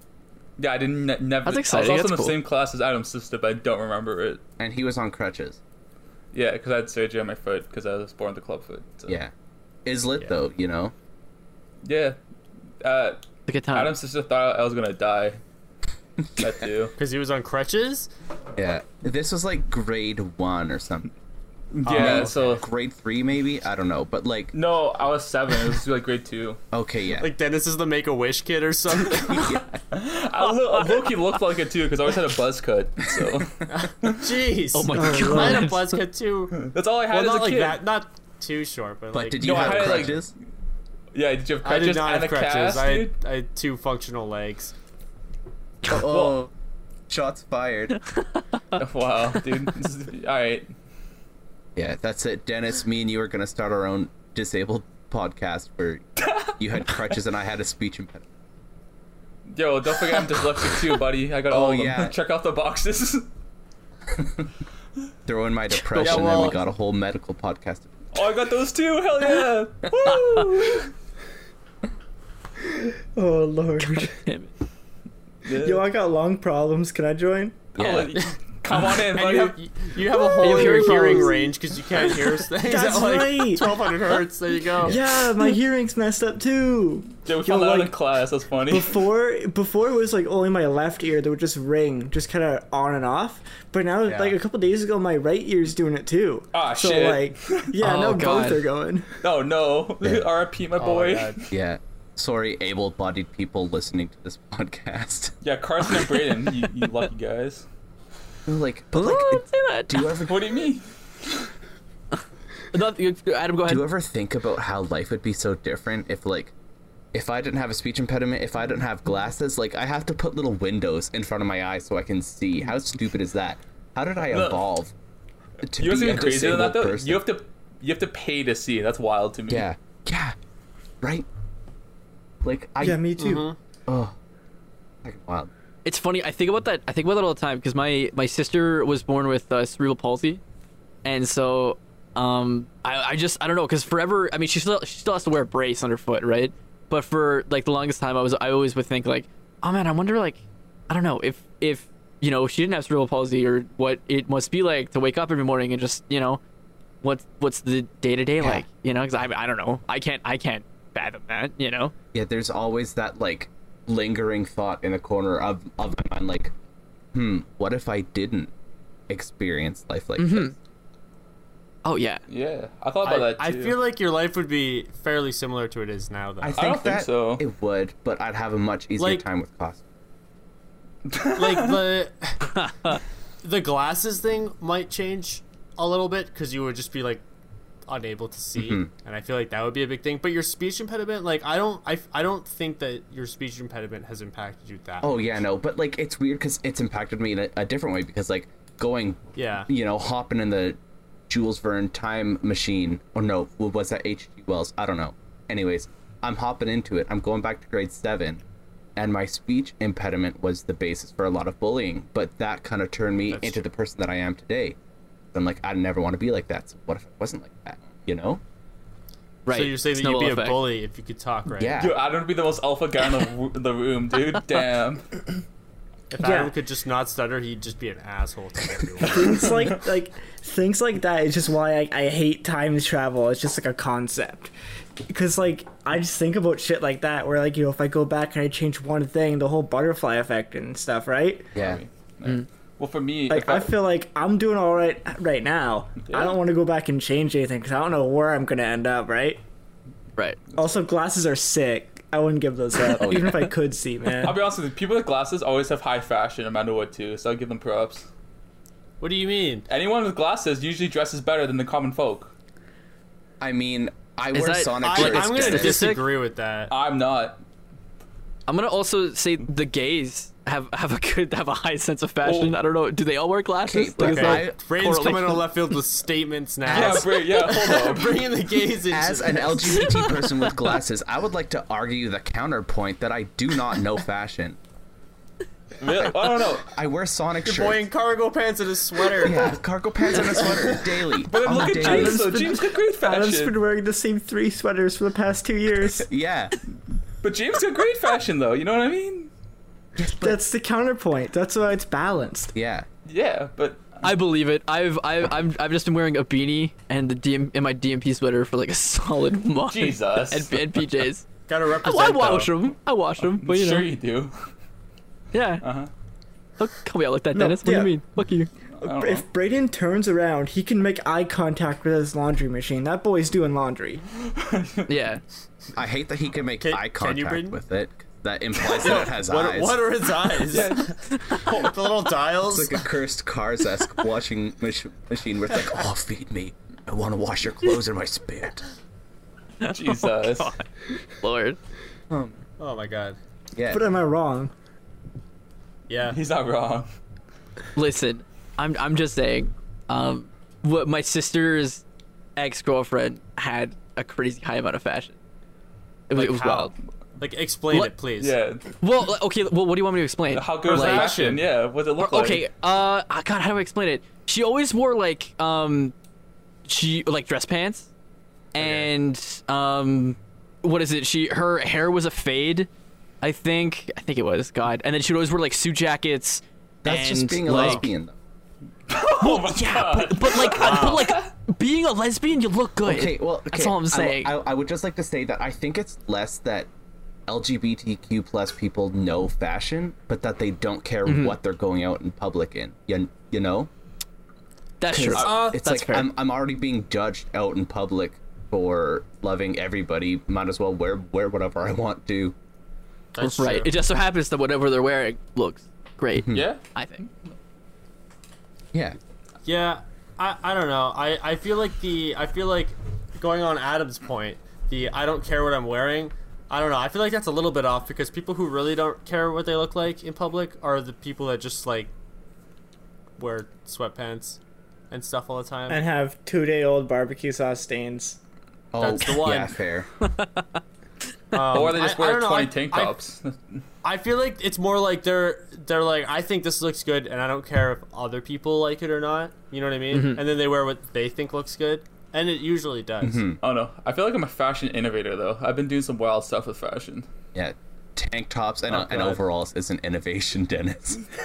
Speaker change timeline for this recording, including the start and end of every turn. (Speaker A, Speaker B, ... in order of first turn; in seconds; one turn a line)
Speaker A: 0.6-4.4
Speaker B: 1.5-2.4
Speaker C: 4.6-5.6
Speaker A: 6.3-9.2
Speaker C: 9.9-10.9
Speaker A: 11.8-12.2
Speaker A: 12.8-15.4
Speaker B: 13.5-13.9
Speaker C: 16.2-16.6
Speaker A: 16.4-16.9
Speaker D: 17.0-18.1
Speaker C: 18.6-21.1
Speaker A: 21.7-22.6
Speaker D: 21.9-22.6
Speaker C: 21.9-24.5
Speaker A: 24.5-26.6
Speaker C: 26.7-27.3
Speaker D: 27.2-29.6
Speaker C: 29.3-29.8
Speaker A: 29.4-34.3
Speaker D: 33.7-40.2
Speaker B: 34.7-36.0
Speaker E: 35.0-35.7
Speaker A: 36.6-37.8
Speaker C: 39.1-40.3
Speaker A: 39.4-40.3
Speaker A: 41.1-43.1
Speaker D: 41.6-44.7
Speaker C: 45.9-46.5
Speaker A: 46.1-46.4
Speaker C: 47.1-48.0
Speaker A: 48.7-50.7
Speaker C: 51.8-58.3
Speaker A: 56.2-56.5
Speaker A: 59.5-63.3
Speaker C: 61.5-62.1
Speaker C: 64.1-64.5
Speaker C: 65.3-68.0
Speaker B: 65.9-66.5
Speaker D: 66.0-66.6
Speaker A: 68.1-70.9
Speaker E: 72.7-74.2
Speaker B: 73.8-74.5
Speaker A: 75.5-75.9
Speaker E: 75.6-77.6
Speaker C: 77.8-78.2
Speaker A: 77.8-79.6
Speaker D: 79.1-85.0
Speaker B: 80.4-81.4
Speaker E: 80.4-81.5
Speaker E: 82.6-83.8
Speaker E: 84.8-88.0
Speaker A: 87.3-89.1
Speaker E: 88.7-99.1
Speaker D: 94.1-94.4
Speaker A: 96.5-97.7
Speaker B: 97.8-98.6
Speaker A: 99.2-101.5
Speaker D: 100.8-101.4
Speaker C: 101.5-105.3
Speaker A: 105.4-107.7
Speaker C: 108.5-110.5
Speaker B: 108.9-110.1
Speaker A: 110.2-111.5
Speaker B: 112.7-113.8
Speaker C: 113.7-116.5
Speaker C: 117.1-124.9
Speaker A: 124.3-124.6
Speaker C: 125.6-127.2
Speaker A: 125.8-129.7
Speaker C: 129.5-130.4
Speaker C: 131.0-131.3
Speaker C: 132.4-133.1
Speaker E: 132.8-133.5
Speaker D: 133.2-133.6
Speaker C: 133.9-134.2
Speaker C: 135.0-135.5
Speaker B: 135.8-140.4
Speaker B: 141.0-156.4
Speaker B: 157.0-161.9
Speaker C: 162.1-166.5
Speaker C: 167.1-168.5
Speaker C: 169.1-170.5
Speaker B: 170.2-170.5
Speaker B: 171.8-172.2
Speaker A: 172.3-173.8
Speaker D: 173.0-176.6
Speaker C: 176.4-179.8
Speaker A: 176.5-177.4
Speaker D: 179.0-179.2
Speaker A: 181.1-181.8
Speaker D: 181.3-187.2
Speaker B: 182.6-182.9
Speaker D: 187.9-195.3
Speaker C: 188.6-188.9
Speaker C: 195.0-200.8
Speaker D: 199.4-199.7
Speaker C: 201.3-208.4
Speaker C: 209.0-214.8
Speaker D: 213.3-213.6
Speaker C: 215.3-218.4
Speaker B: 219.5-220.7
Speaker D: 219.5-221.8
Speaker C: 221.6-222.0
Speaker A: 221.8-225.2
Speaker D: 226.1-229.5
Speaker E: 226.2-226.6
Speaker E: 229.1-234.5
Speaker E: 235.1-241.5
Speaker C: 241.6-241.8
Speaker A: 241.6-243.7
Speaker E: 243.3-249.4
Speaker A: 246.1-246.4
Speaker E: 250.6-254.4
Speaker C: 253.0-253.5
Speaker A: 254.2-258.1
Speaker D: 259.0-259.7
Speaker A: 259.7-262.3
Speaker C: 263.4-265.8
Speaker B: 264.3-266.1
Speaker D: 264.8-266.7
Speaker A: 266.7-267.4
Speaker B: 268.5-275.5
Speaker A: 272.2-272.6
Speaker C: 273.6-274.6
Speaker D: 274.0-280.1
Speaker A: 276.7-278.3
Speaker C: 278.9-284.6
Speaker A: 285.8-286.7
Speaker C: 286.0-287.8
Speaker D: 287.4-289.5
Speaker C: 289.2-292.3
Speaker D: 290.4-290.8
Speaker A: 291.2-293.6
Speaker E: 291.4-296.1
Speaker C: 296.0-296.6
Speaker A: 297.2-299.3
Speaker C: 300.0-300.4
Speaker E: 300.2-302.5
Speaker C: 302.6-302.9
Speaker A: 303.1-304.1
Speaker B: 304.0-311.3
Speaker A: 309.7-310.9
Speaker D: 311.5-312.5
Speaker B: 311.8-313.9
Speaker A: 313.2-314.3
Speaker B: 315.3-315.6
Speaker A: 315.6-315.9
Speaker B: 316.6-318.5
Speaker E: 317.3-318.0
Speaker A: 318.8-319.2
Speaker E: 318.8-324.0
Speaker A: 324.3-324.9
Speaker B: 324.9-325.2
Speaker C: 325.8-329.8
Speaker D: 326.6-327.6
Speaker D: 328.6-332.8
Speaker A: 330.5-331.7
Speaker C: 332.5-338.6
Speaker B: 339.6-341.6
Speaker A: 339.6-340.5
Speaker C: 342.1-342.4
Speaker D: 342.6-343.2
Speaker C: 343.6-343.9
Speaker E: 343.7-344.5
Speaker D: 345.9-346.2
Speaker A: 346.1-346.9
Speaker B: 347.8-351.8
Speaker B: 352.4-355.1
Speaker B: 356.1-356.7
Speaker D: 356.1-358.4
Speaker A: 358.2-358.7
Speaker B: 358.8-361.4
Speaker A: 360.3-362.4
Speaker D: 360.7-361.4
Speaker B: 362.0-365.9
Speaker B: 366.7-367.9
Speaker B: 368.5-372.7
Speaker A: 368.6-368.9
Speaker B: 373.2-377.9
Speaker C: 376.8-378.1
Speaker A: 378.9-381.3
Speaker B: 379.2-384.3
Speaker D: 380.5-381.2
Speaker C: 382.9-386.7
Speaker C: 387.3-393.7
Speaker B: 391.1-391.4
Speaker B: 394.8-396.1
Speaker C: 394.9-402.4
Speaker D: 395.2-395.6
Speaker A: 395.2-395.4
Speaker D: 403.1-403.8
Speaker B: 403.2-407.0
Speaker C: 406.2-406.5
Speaker A: 406.3-407.1
Speaker D: 409.4-421.9
Speaker D: 423.2-424.4
Speaker D: 424.9-425.8
Speaker E: 425.7-428.2
Speaker C: 428.7-429.9
Speaker D: 428.8-429.6
Speaker B: 430.0-430.5
Speaker D: 431.3-433.0
Speaker A: 431.5-433.6
Speaker D: 433.8-443.3
Speaker B: 439.9-440.2
Speaker C: 443.0-443.4
Speaker A: 443.4-447.1
Speaker C: 447.4-451.0
Speaker D: 448.7-449.2